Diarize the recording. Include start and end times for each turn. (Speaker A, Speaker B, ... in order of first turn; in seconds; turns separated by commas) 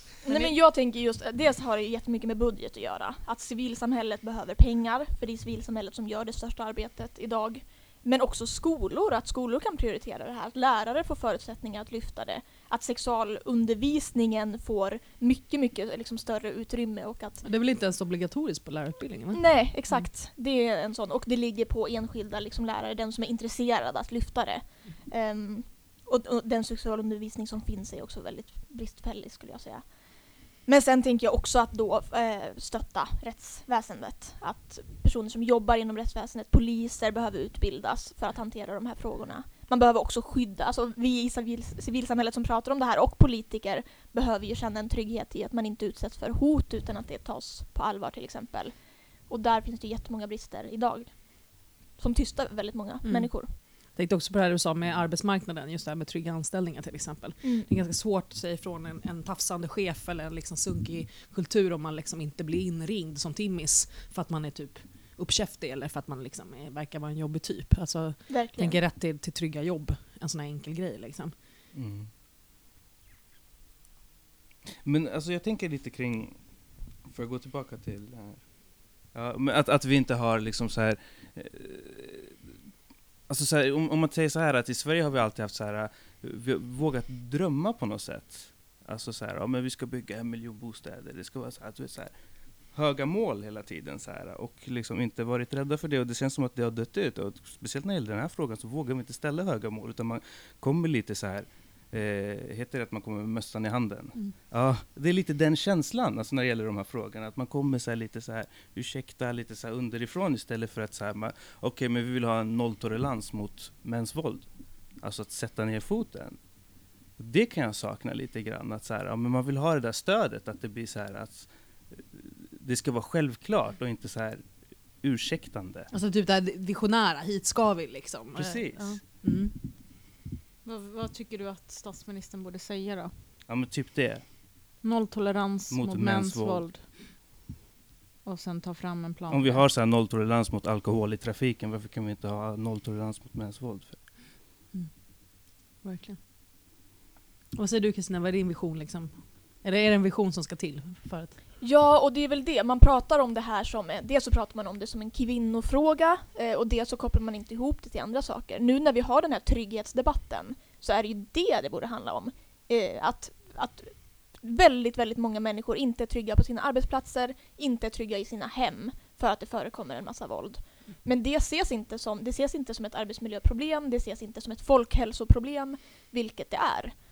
Speaker A: 0.2-17.4, Speaker B: 0.3-0.5, Speaker B: 17.4-20.1, Speaker A: 19.3-29.9, Speaker A: 30.6-53.5, Speaker B: 53.0-71.3, Speaker A: 57.4-57.7, Speaker A: 68.3-68.8, Speaker C: 71.7-72.1, Speaker C: 74.8-76.4, Speaker C: 77.0-78.5, Speaker C: 79.1-82.4, Speaker C: 83.3-92.1, Speaker C: 92.7-114.5, Speaker C: 115.0-116.4, Speaker C: 117.2-124.5, Speaker C: 125.0-125.9, Speaker B: 125.9-129.6, Speaker C: 128.3-129.0, Speaker D: 130.6-133.1, Speaker C: 133.5-134.3, Speaker D: 134.8-137.1, Speaker C: 135.7-136.9, Speaker D: 138.2-139.7, Speaker C: 139.3-144.0, Speaker B: 144.7-146.2, Speaker B: 147.6-151.4, Speaker A: 151.6-177.0